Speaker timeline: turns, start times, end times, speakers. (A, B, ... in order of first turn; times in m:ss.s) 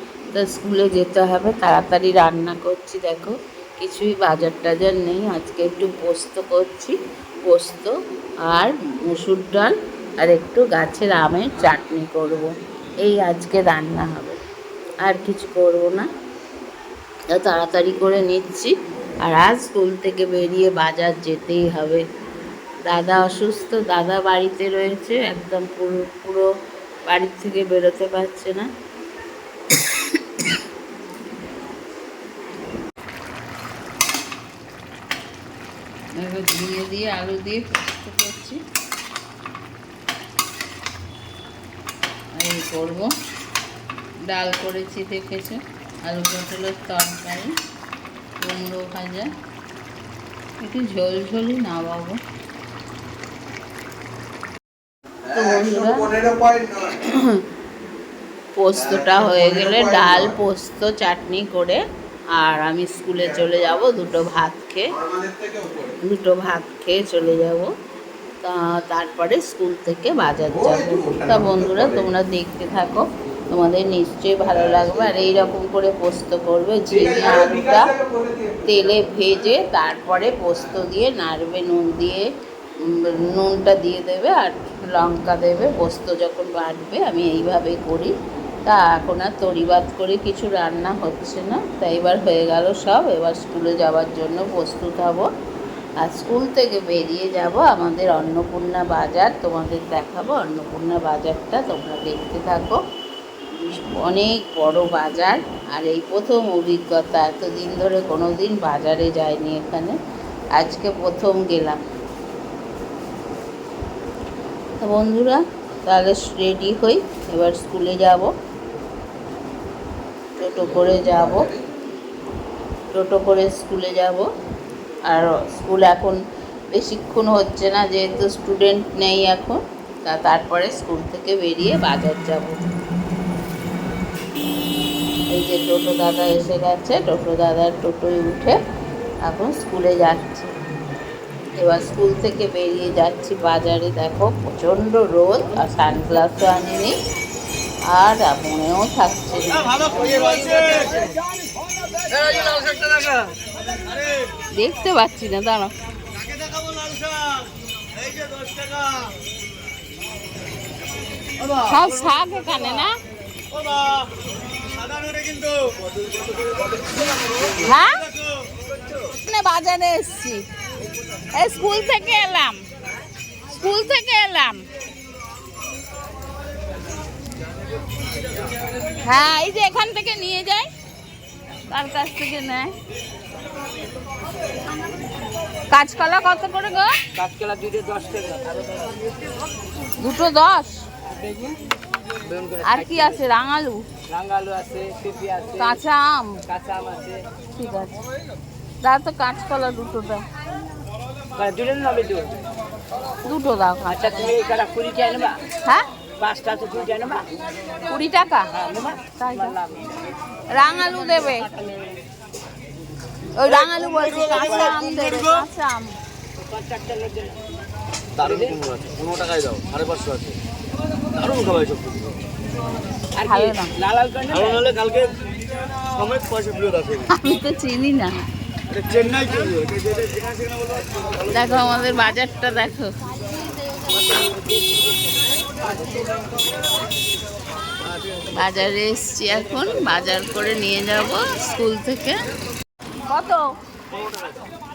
0:00.3-0:07.9 A
0:08.5-0:12.5 A
0:13.0-0:14.4 A
0:15.0-0:16.0 A
0:17.3-0:18.7 A
0:19.2-0:22.0 A
0:22.8-0:26.5 A
0:27.1-0:28.7 A
0:36.2-0:38.6 A
0:42.4-0:43.1 A
0:44.3-0:47.5 A
0:48.4-0:49.3 A
0:50.6-0:52.2 A
0:55.3-0:56.2 A
0:56.4-0:56.7 B
0:56.8-0:57.4 A
0:58.6-1:01.8 A
1:02.4-1:05.0 A
1:06.0-1:07.7 A
1:08.4-1:17.9 A
1:17.9-1:18.6 B
1:18.6-1:22.2 A
1:22.8-1:28.1 A
1:28.6-1:35.3 A
1:36.0-1:42.8 A
1:43.6-1:50.0 A
1:50.6-1:51.8 A
1:54.8-1:58.3 A
2:00.4-2:01.5 A
2:02.9-2:04.3 A
2:05.1-2:06.2 A
2:06.7-2:12.6 A
2:15.3-2:18.6 A
2:19.2-2:20.5 A
2:21.6-2:26.9 A
2:27.9-2:30.5 A
2:29.8-2:31.0 B
2:32.1-2:34.3 B
2:34.5-2:35.7 A
2:36.1-2:39.1 B
2:41.4-2:41.8 B
2:41.6-2:42.9 A
2:43.5-2:44.1 B
2:44.6-2:45.8 B
2:46.4-2:48.3 B
2:47.6-2:48.0 A
2:49.2-2:50.4 A
2:51.4-2:52.6 A
2:53.5-2:54.6 A
2:59.0-3:00.6 A
3:01.7-3:02.7 A
3:05.7-3:06.9 A
3:07.1-3:09.0 C
3:10.0-3:10.8 A
3:11.1-3:11.6 C
3:12.3-3:13.2 C
3:12.6-3:13.8 A
3:14.1-3:15.8 C
3:15.6-3:16.4 A
3:16.5-3:17.2 C
3:17.5-3:17.9 A
3:18.8-3:20.2 A
3:21.4-3:22.3 C
3:23.2-3:24.4 A
3:24.0-3:25.4 C
3:26.2-3:27.3 C
3:27.9-3:28.5 A
3:28.5-3:29.9 C
3:29.1-3:29.6 A
3:30.5-3:31.4 A
3:30.8-3:32.0 C
3:33.4-3:35.9 A
3:33.4-3:35.4 B
3:34.4-3:34.8 C
3:36.4-3:37.4 C
3:38.2-3:40.4 B
3:38.2-3:38.6 C
3:41.1-3:42.2 B
3:43.2-3:44.6 C
3:43.2-3:43.7 A
3:44.3-3:47.1 B
3:47.1-3:48.1 A
3:48.7-3:51.5 B
3:51.3-3:52.9 A
3:53.9-3:55.0 C
3:55.5-3:56.0 C
3:58.3-4:02.2 A
4:03.0-4:03.5 A